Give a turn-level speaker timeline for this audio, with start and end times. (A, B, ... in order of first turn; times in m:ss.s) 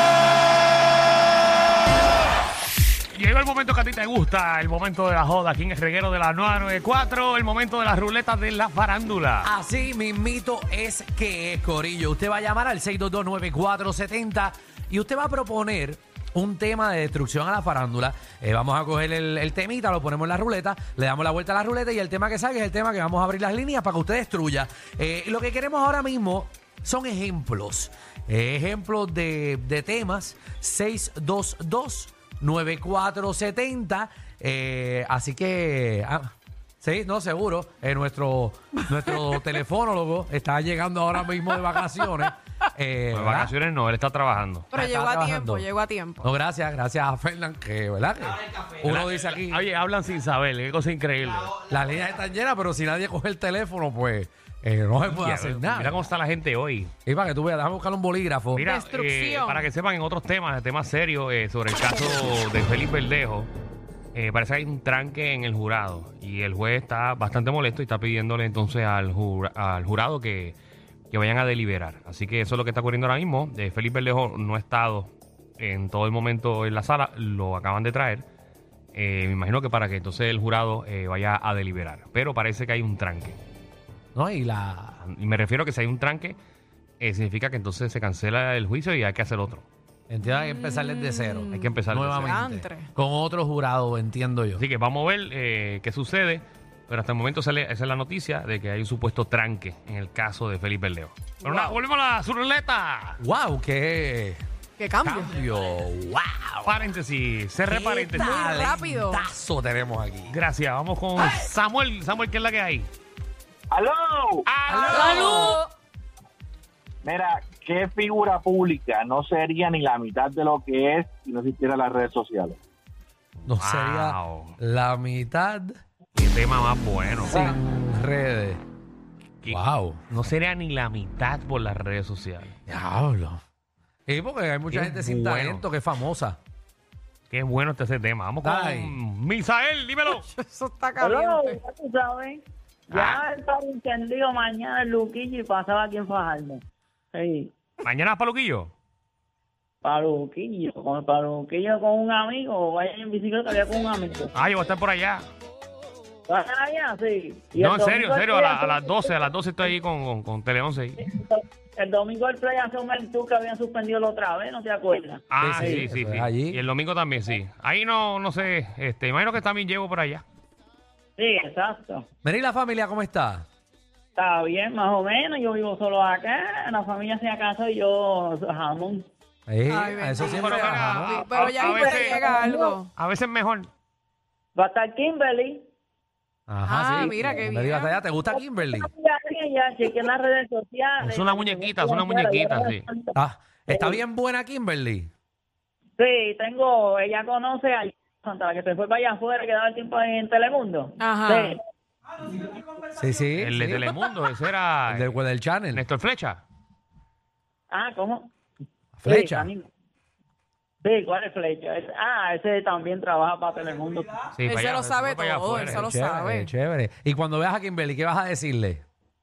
0:03.1-0:09.5 A
0:09.4-0:43.5 B
0:43.1-0:44.7 A
0:44.7-0:46.3 C
0:44.7-0:45.7 B
0:46.2-0:49.6 B
0:48.8-0:51.6 A
0:51.6-0:56.0 B
0:55.1-0:56.9 A
0:57.0-0:58.7 B
0:58.5-1:03.5 A
0:58.6-0:59.7 C
1:04.1-1:10.6 A
1:11.1-1:18.2 A
1:18.9-1:23.4 A
1:24.1-1:25.0 B
1:25.0-1:26.4 A
1:27.0-1:29.6 A
1:30.1-1:34.6 B
1:30.3-1:32.9 C
1:31.5-1:32.4 A
1:34.6-1:43.2 A
1:41.5-1:41.7 B
1:43.2-1:44.4 B
1:44.8-1:45.3 C
1:45.0-1:46.9 B
1:46.6-1:48.4 A
1:47.6-1:50.4 B
1:48.1-1:49.2 C
1:50.3-1:52.9 A
1:53.7-1:54.4 D
1:54.5-1:55.6 A
1:54.7-1:55.7 B
1:57.0-2:02.6 D
2:03.4-2:05.8 B
2:03.6-2:04.6 A
2:06.1-2:07.5 A
2:07.2-2:08.6 B
2:09.4-2:12.6 A
2:09.5-2:10.0 B
2:12.7-2:13.4 B
2:14.1-2:16.4 B
2:14.7-2:15.6 A
2:17.3-2:20.2 A
2:18.4-2:19.0 B
2:20.1-2:21.6 C
2:21.0-2:26.6 E
2:22.9-2:23.2 A
2:27.1-2:27.5 E
2:27.8-2:28.7 A
2:29.8-2:34.3 E
2:34.3-2:35.2 A
2:36.3-2:39.1 E
2:37.6-2:41.0 A
2:41.0-2:45.8 E
2:45.3-2:50.2 A
2:45.4-2:46.6 B
2:51.2-2:52.0 E
2:52.2-2:53.4 B
2:54.2-2:59.0 E
2:59.5-3:01.3 B
2:59.7-3:02.9 C
3:00.2-3:02.4 A
3:01.3-3:02.8 E
3:03.0-3:03.7 A
3:04.6-3:05.6 E
3:06.5-3:08.9 B
3:06.6-3:08.0 C
3:08.3-3:13.1 E
3:11.0-3:12.8 A
3:13.1-3:15.1 B
3:13.7-3:14.0 E
3:16.0-3:21.6 E
3:21.0-3:21.6 C
3:22.9-3:23.9 B
3:23.4-3:25.2 A
3:24.9-3:25.8 B
3:25.7-3:26.4 A
3:27.7-3:28.3 E
3:28.9-3:29.5 B
3:29.0-3:29.7 E
3:30.8-3:34.2 E
3:34.4-3:35.9 A
3:34.4-3:36.5 C
3:35.6-3:38.8 B